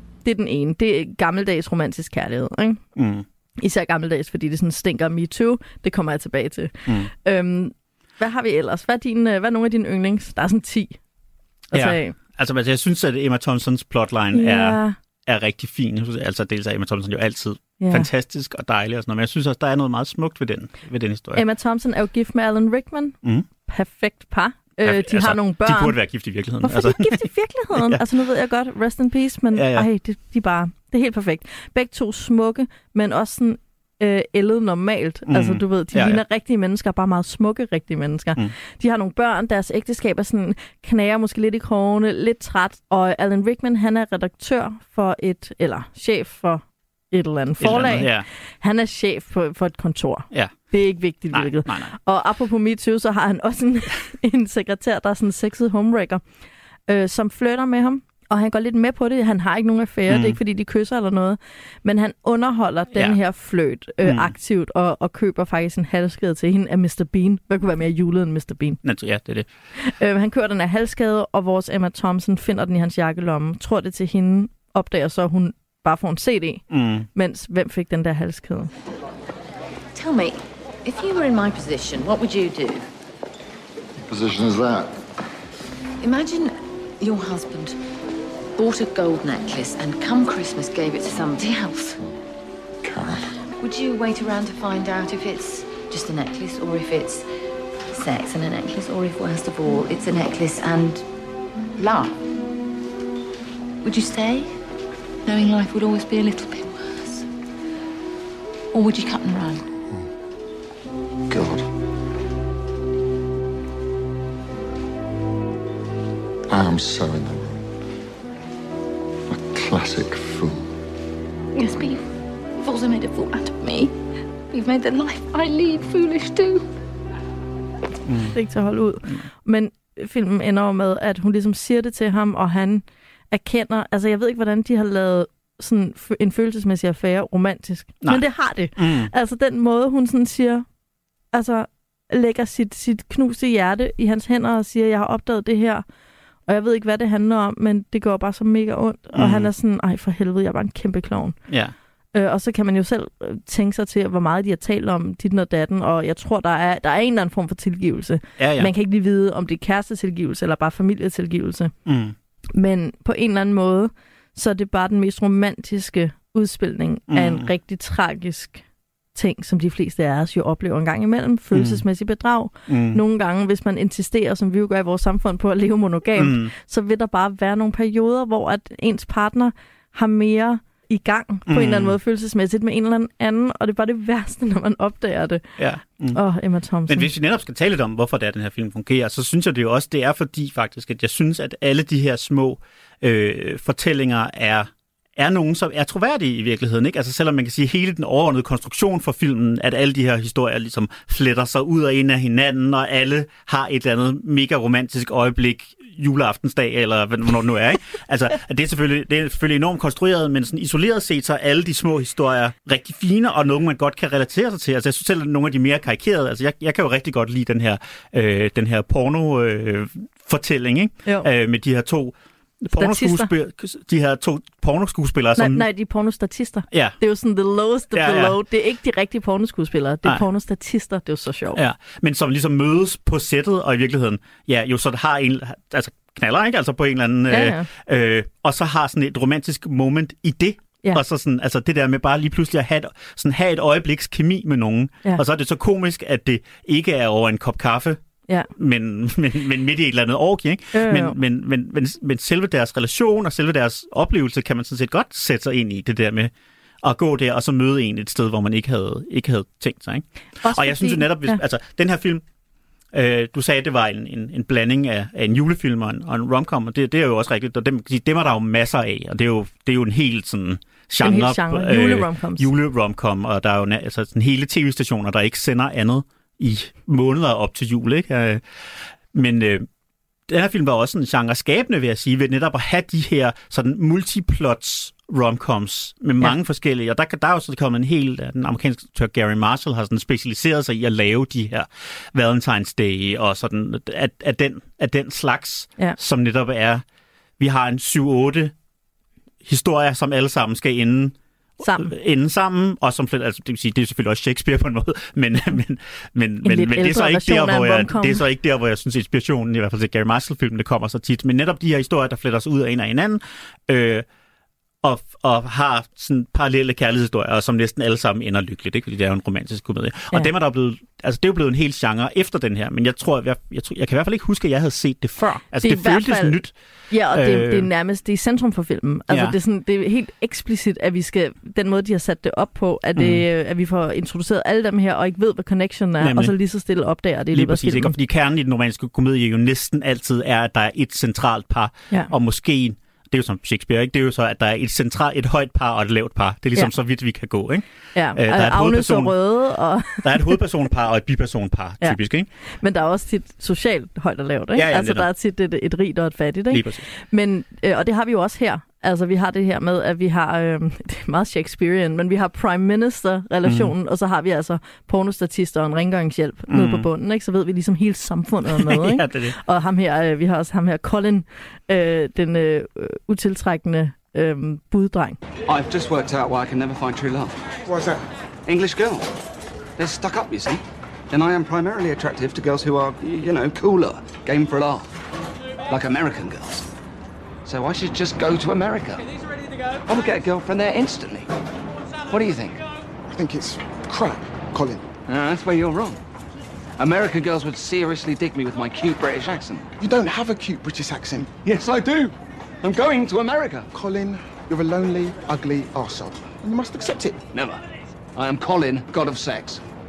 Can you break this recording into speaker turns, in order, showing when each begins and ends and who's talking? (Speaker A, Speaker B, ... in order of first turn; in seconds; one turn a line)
Speaker A: 0.2-2.8
Speaker B: 3.0-3.2
Speaker A: 3.6-11.0
Speaker A: 11.7-12.1
Speaker B: 11.7-21.4
Speaker A: 14.3-14.9
Speaker A: 17.8-18.1
Speaker A: 21.3-26.0
Speaker B: 24.8-28.0
Speaker A: 26.6-56.2
Speaker B: 29.5-29.9
Speaker B: 35.3-36.2
Speaker B: 47.6-48.3
Speaker B: 51.3-51.9
Speaker A: 56.9-68.8
Speaker B: 60.1-60.4
Speaker B: 62.9-63.2
Speaker B: 64.0-64.3
Speaker B: 68.8-69.5
Speaker A: 69.8-78.7
Speaker B: 76.7-77.1
Speaker C: 79.9-82.9
Speaker D: 84.1-85.0
Speaker C: 86.0-87.8
Speaker C: 88.6-92.0
Speaker D: 92.8-93.2
Speaker C: 93.6-97.3
Speaker C: 97.9-101.0
Speaker C: 101.8-102.2
Speaker C: 103.8-104.5
Speaker C: 105.2-107.2
Speaker C: 108.7-109.7
Speaker D: 111.3-111.7
Speaker D: 116.5-117.6
Speaker D: 119.3-120.7
Speaker C: 121.6-121.9
Speaker C: 122.6-123.9
Speaker C: 124.5-126.7
Speaker B: 128.1-128.3
Speaker A: 128.3-140.6
Speaker B: 138.8-139.1
Speaker A: 141.3-145.8
Speaker A: 146.5-151.4
Speaker B: 149.1-149.5
Speaker B: 151.5-151.7
Speaker A: 152.1-161.7
Speaker B: 158.4-158.7
Speaker B: 161.8-162.1
Speaker A: 162.5-168.6
Speaker B: 167.1-167.5
Speaker A: 169.1-185.4
Speaker B: 171.5-171.8
Speaker B: 172.7-173.0
Speaker B: 176.2-176.5
Speaker B: 181.5-181.9
Speaker B: 185.6-186.2
Speaker A: 186.1-187.1
Speaker B: 186.9-225.7
Speaker A: 222.7-223.3
Speaker A: 225.3-231.6
Speaker B: 226.7-227.0
Speaker B: 227.9-228.4
Speaker B: 231.5-248.0
Speaker A: 237.3-237.7
Speaker B: 248.5-256.3
Speaker A: 250.7-251.1
Speaker B: 256.8-262.2
Speaker A: 260.4-261.4
Speaker B: 262.9-278.4
Speaker A: 271.0-272.5
Speaker B: 279.1-279.7
Speaker B: 280.3-296.8
Speaker B: 297.4-298.5
Speaker B: 299.4-301.1
Speaker A: 301.6-301.9
Speaker B: 301.7-314.1
Speaker A: 306.4-308.2
Speaker B: 314.8-326.5
Speaker A: 325.6-326.4
Speaker A: 326.9-337.9
Speaker B: 327.1-327.7
Speaker B: 329.1-329.4
Speaker B: 333.0-333.2
Speaker B: 336.0-336.3
Speaker B: 337.3-349.2
Speaker A: 347.9-350.4
Speaker B: 350.0-352.3
Speaker A: 352.6-375.2
Speaker B: 354.5-355.1
Speaker B: 356.5-356.9
Speaker B: 363.4-363.7
Speaker B: 366.5-366.9
Speaker B: 368.5-369.3
Speaker E: 375.5-377.4
Speaker E: 378.5-379.1
Speaker E: 379.8-384.9
Speaker E: 385.7-386.7
Speaker E: 387.4-389.1
Speaker E: 389.9-391.3
Speaker E: 392.1-392.6
Speaker F: 393.1-394.9
Speaker E: 395.0-396.0
Speaker E: 396.8-399.7
Speaker F: 399.8-401.9
Speaker E: 402.6-403.7
Speaker F: 403.7-407.2
Speaker E: 407.3-407.6
Speaker E: 408.1-409.6